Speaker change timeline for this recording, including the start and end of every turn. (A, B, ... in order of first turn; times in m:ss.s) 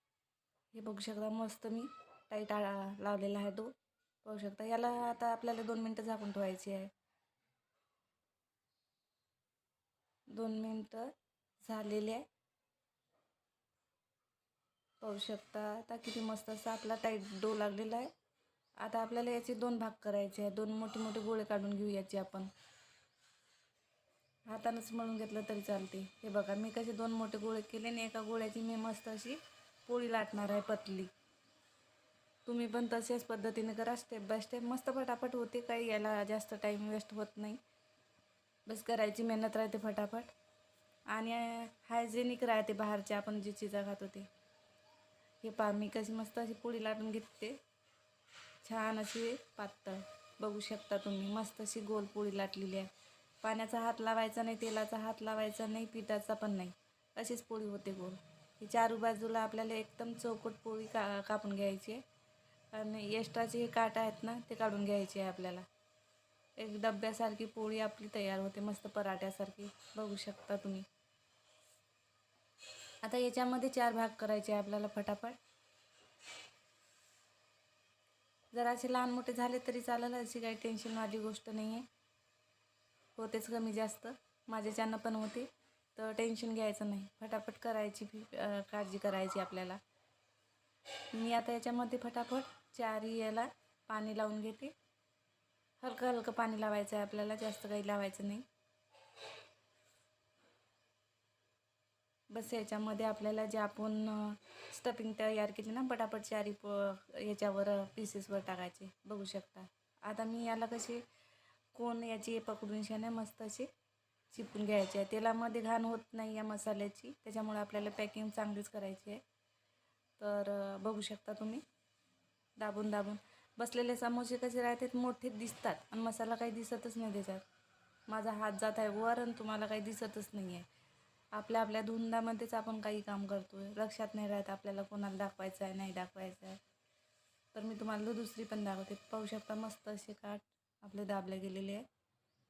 0:00.7-0:03.7 A
0:04.2-0:06.9 A
0:10.3-0:12.2 A
0:15.0-0:18.1 A
0:18.8-0:22.5 A
0:24.5-0:31.1 A
0:32.4-0:37.6 A
0:38.7-0:40.3 A
0:41.1-0:44.3 A
0:45.4-0:47.6 A
0:48.6-0:52.9 A
0:53.4-1:02.0 A
1:02.7-1:05.6 A
1:06.6-1:10.8 A
1:13.0-1:15.4 A
1:18.5-1:21.8 A
1:23.2-1:29.8 A
1:31.1-1:34.7 A
1:35.8-1:38.4 A
1:42.3-1:51.0 A
1:51.7-1:53.7 A
1:54.3-1:59.2 A
2:00.2-2:01.6 A
2:02.6-2:07.4 A
2:08.1-2:10.6 A
2:11.3-2:16.6 A
2:17.5-2:21.8 A